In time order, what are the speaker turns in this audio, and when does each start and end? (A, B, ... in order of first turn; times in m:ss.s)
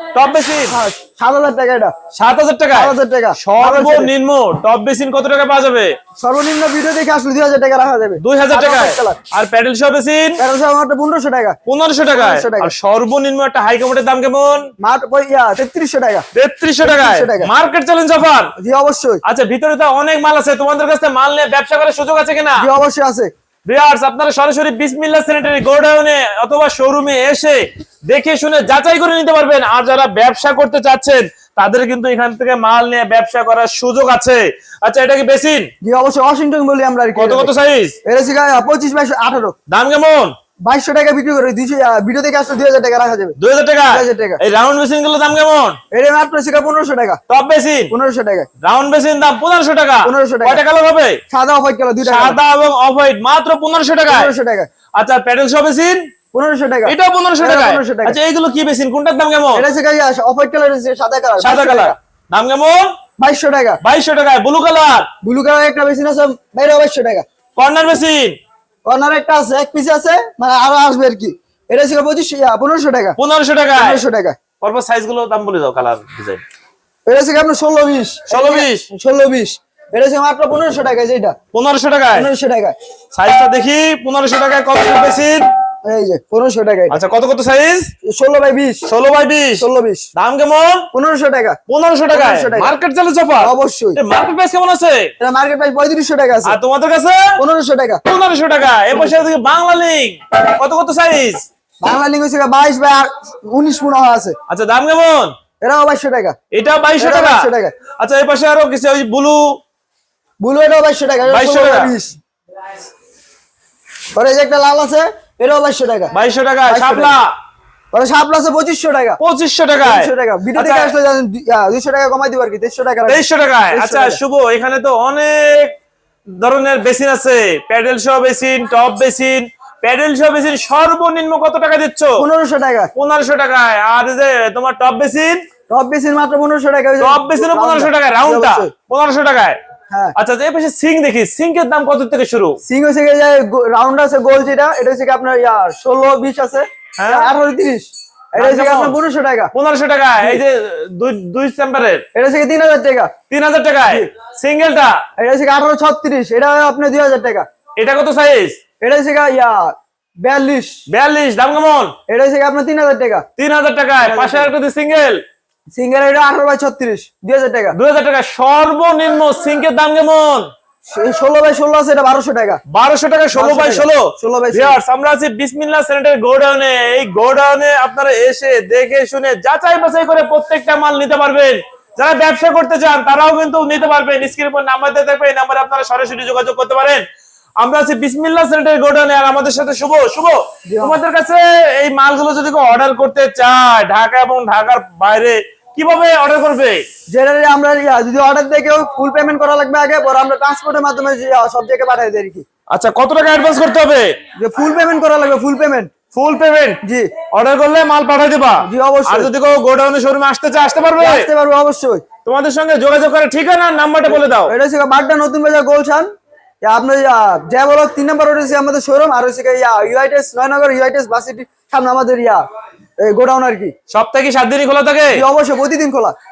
0:00.1-0:00.8 A
0:00.7-0:01.9 B
0:02.1-0:06.0 A
0:02.7-0:04.1 B
0:06.2-0:09.2 B
0:08.2-0:10.4 A
0:10.4-0:11.6 B
0:11.6-0:14.7 A
0:12.1-0:12.7 B
0:14.8-0:16.2 B
0:16.3-0:18.5 A
0:16.8-0:17.5 B
0:18.6-0:19.2 B
0:19.2-0:22.7 A
0:22.6-0:23.3 B
0:23.6-0:35.7 A
0:35.8-0:37.5 B
0:37.2-0:38.0 A
0:38.0-0:39.5 B
0:39.7-0:40.3 A
0:40.6-0:43.4 B
0:43.4-0:45.8 A
0:43.9-0:44.4 B
0:45.9-0:47.2 B
0:47.3-0:47.9 A
0:47.9-0:48.5 B
0:48.6-0:51.2 A
0:50.0-0:50.6 B
0:51.3-0:52.4 B
0:52.0-0:54.3 A
0:54.1-0:54.7 B
0:55.0-0:56.1 A
0:56.3-0:58.2 B
0:56.8-0:59.6 A
0:59.5-1:02.0 B
1:01.4-1:02.9 A
1:03.2-1:03.8 B
1:03.8-1:05.1 A
1:05.2-1:07.2 B
1:07.6-1:08.4 A
1:08.8-1:13.2 B
1:13.2-1:14.0 A
1:13.8-1:14.4 B
1:14.6-1:16.4 A
1:17.1-1:21.4 B
1:18.3-1:18.9 A
1:21.5-1:22.3 A
1:22.1-1:22.7 B
1:23.1-1:25.5 A
1:25.8-1:27.0 B
1:26.9-1:27.9 A
1:28.0-1:28.8 B
1:28.8-1:30.9 A
1:29.6-1:30.1 B
1:30.9-1:31.6 B
1:31.7-1:35.1 A
1:32.1-1:32.7 B
1:33.4-1:34.0 B
1:35.2-1:36.6 B
1:36.4-1:37.4 A
1:37.4-1:38.0 B
1:38.0-1:41.4 A
1:41.8-1:44.3 B
1:44.5-1:45.3 A
1:45.6-1:46.4 B
1:46.5-1:49.6 A
1:47.0-1:47.7 B
1:50.4-1:52.2 B
1:51.3-1:51.9 A
1:54.1-1:56.1 B
1:56.1-1:57.3 A
1:56.7-1:57.1 B
1:57.9-1:59.2 B
1:59.2-2:00.9 A
1:59.8-2:04.2 B
2:03.1-2:05.7 A
2:06.4-2:12.2 A
2:12.2-2:12.9 B
2:12.9-2:15.4 A
2:15.7-2:18.7 B
2:17.0-2:19.6 A
2:19.9-2:20.2 B
2:20.2-2:22.6 A
2:22.6-2:29.5 B
2:27.0-2:27.3 A
2:28.4-2:29.0 A
2:29.5-2:32.0 A
2:32.1-2:33.1 B
2:33.3-2:35.0 A
2:35.2-2:37.4 B
2:37.8-2:38.6 A
2:38.8-2:40.8 B
2:40.9-2:41.9 A
2:42.1-2:43.2 B
2:43.4-2:45.2 A
2:44.0-2:44.5 B
2:45.7-2:47.8 B
2:47.7-2:50.5 A
2:50.9-2:52.6 B
2:52.7-3:07.0 A
2:53.3-2:54.8 B
3:07.6-3:16.8 A
3:10.7-3:11.0 B
3:17.1-3:22.4 B
3:22.7-3:24.2 A
3:24.4-3:25.9 B
3:26.1-3:31.3 A
3:26.8-3:27.1 B
3:28.6-3:29.3 B
3:31.0-3:32.0 B
3:32.2-3:34.5 A
3:34.1-3:36.1 B
3:36.6-3:42.4 B
3:43.0-3:43.7 B
3:43.9-3:45.2 A
3:45.1-3:46.1 B